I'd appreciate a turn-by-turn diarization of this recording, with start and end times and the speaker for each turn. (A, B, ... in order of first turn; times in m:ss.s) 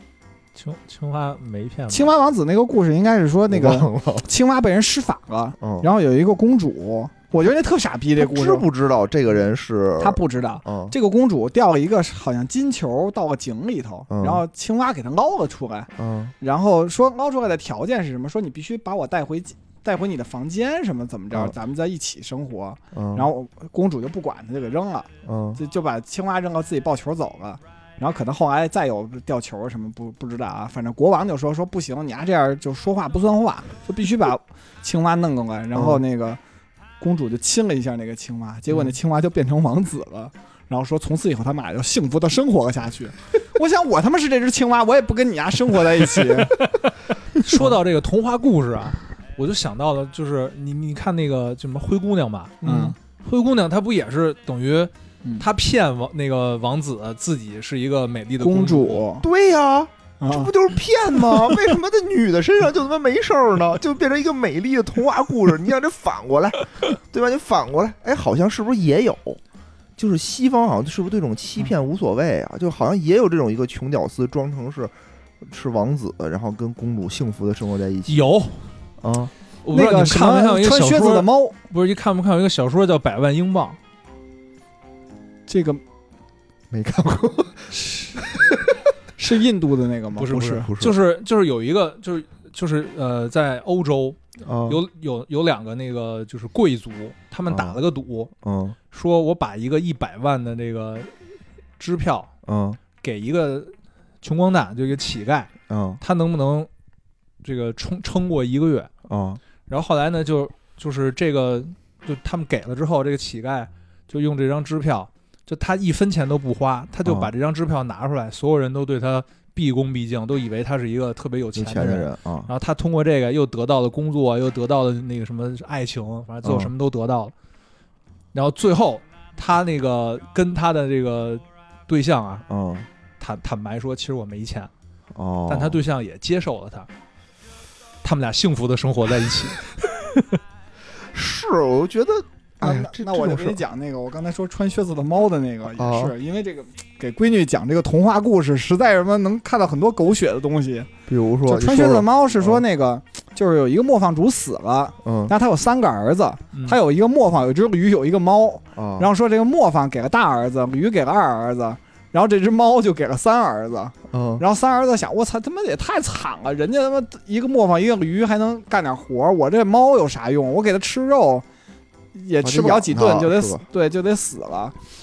0:00.5-0:02.1 A
0:01.9-0:08.6 B
0:03.5-0:04.3 C
0:05.6-0:05.9 C
0:08.2-0:10.9 C
0:10.0-0:36.4 B
0:14.1-0:14.4 C
0:15.9-0:16.3 C
0:22.9-0:23.3 C
0:25.2-0:25.6 C
0:35.7-0:36.0 C
0:37.0-0:46.6 B
0:46.6-0:59.0 A
0:47.4-0:47.7 B
0:52.6-0:53.0 B
0:52.6-0:52.9 C
0:58.4-0:59.3 B
0:59.2-1:09.4 C
1:00.2-1:00.5 B
1:10.0-1:18.2 C
1:18.1-1:18.6 A
1:19.0-1:19.3 C
1:19.6-1:23.8 A
1:19.7-1:21.5 B
1:25.5-1:25.8 B
1:26.7-1:28.8 C
1:27.7-1:28.3 B
1:29.2-1:30.7 B
1:30.2-1:38.3 A
1:30.3-1:31.0 C
1:34.4-1:34.8 C
1:37.5-1:37.8 C
1:38.4-1:38.8 C
1:38.9-1:41.3 A
1:41.8-1:42.3 A
1:42.4-1:42.8 C
1:43.0-1:46.7 A
1:45.7-1:46.0 C
1:47.4-1:48.9 A
1:49.1-1:49.4 C
1:49.7-2:07.3 A
1:57.0-1:57.3 C
2:01.5-2:02.5 C
2:06.4-2:06.7 C
2:08.3-2:12.4 A
2:12.5-2:12.9 C
2:13.2-2:14.7 A
2:15.1-2:15.8 C
2:15.5-2:16.9 A
2:18.0-2:20.4 A
2:21.0-2:23.6 C
2:22.6-2:30.9 B
2:25.7-2:26.1 C
2:31.1-2:32.6 C
2:31.4-2:51.4 B
2:35.0-2:35.3 C
2:38.7-2:39.1 C
2:44.1-2:44.4 C
2:52.1-2:54.8 B
2:52.4-2:53.6 C